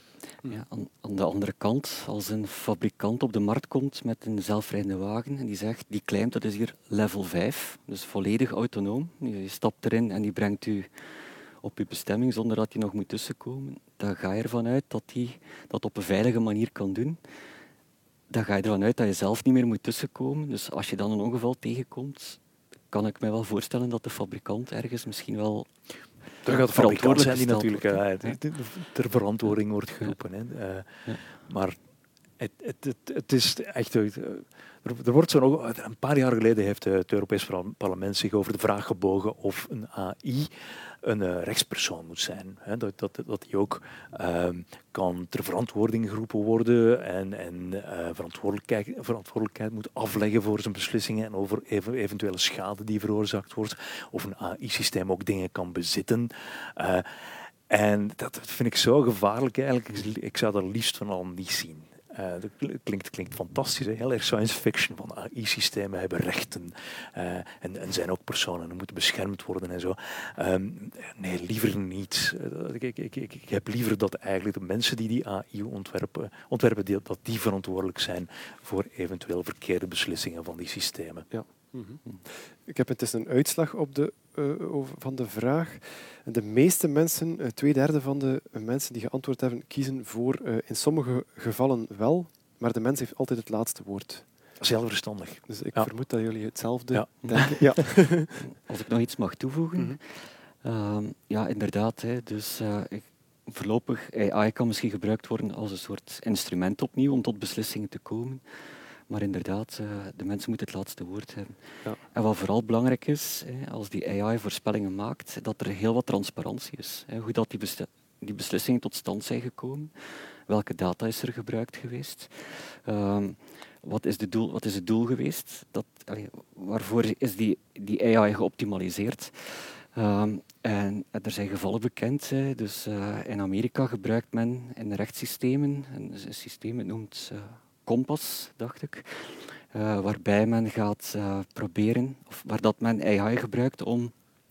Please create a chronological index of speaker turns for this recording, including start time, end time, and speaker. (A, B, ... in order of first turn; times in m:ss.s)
0:00.4-0:10.9 A
0:11.6-0:17.2 A
0:18.3-0:22.4 A
0:22.9-0:25.7 A
0:26.4-0:31.8 B
0:26.4-0:28.4 A
0:32.4-1:21.3 B
1:21.3-1:34.3 C
1:34.6-1:35.9 B
1:35.5-1:38.4 C
1:36.9-1:37.6 B
1:37.2-1:37.6 A
1:38.5-1:48.4 A
1:49.1-1:51.6 A
1:52.1-1:59.9 A
2:00.5-2:24.1 A